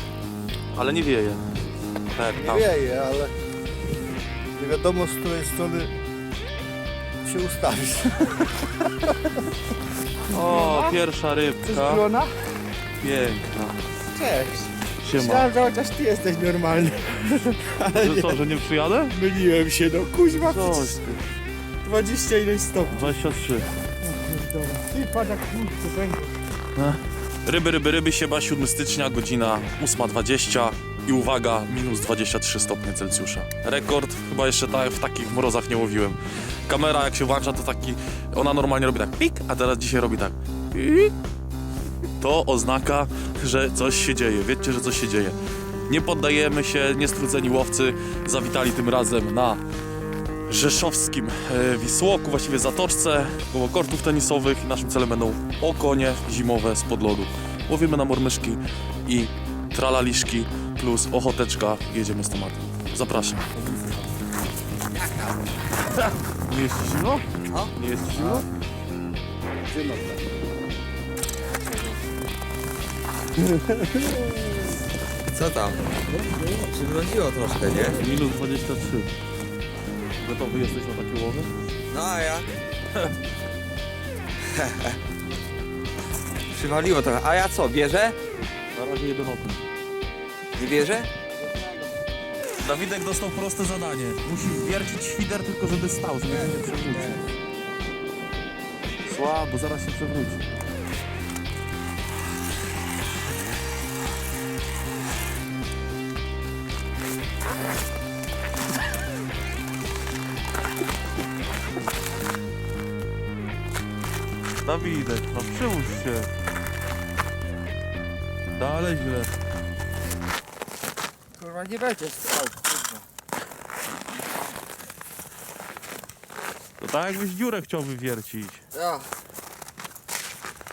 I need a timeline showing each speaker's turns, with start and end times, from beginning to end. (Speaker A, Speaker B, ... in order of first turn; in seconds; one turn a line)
Speaker A: 0.7-1.4
Speaker A: 2.1-2.7
Speaker B: 2.3-3.3
Speaker B: 4.5-5.9
Speaker B: 7.2-8.3
Speaker A: 10.3-12.1
Speaker C: 10.3-11.0
Speaker C: 11.6-12.3
Speaker A: 13.0-13.8
Speaker C: 14.1-18.4
Speaker A: 15.0-15.5
Speaker A: 17.9-19.1
Speaker C: 19.1-21.0
Speaker A: 20.3-21.2
Speaker C: 21.8-23.1
Speaker A: 22.9-23.7
Speaker C: 24.1-26.4
Speaker A: 26.8-41.1
Speaker A: 42.2-45.4
Speaker A: 45.9-49.6
Speaker A: 50.5-63.5
Speaker D: 65.0-65.3
Speaker A: 66.0-68.5
Speaker D: 67.5-68.4
Speaker B: 69.7-70.2
Speaker D: 71.3-72.0
Speaker D: 75.3-75.8
Speaker D: 76.4-78.0
Speaker A: 77.9-79.1
Speaker A: 80.2-81.5
Speaker D: 81.9-82.5
Speaker D: 84.5-85.0
Speaker D: 86.5-88.2
Speaker A: 88.7-89.6
Speaker D: 90.5-91.1
Speaker A: 92.6-97.1
Speaker D: 96.2-97.3
Speaker A: 99.1-100.4
Speaker A: 114.6-116.3
Speaker A: 118.6-119.3
Speaker D: 121.4-123.0
Speaker A: 126.8-128.6
Speaker D: 128.7-129.1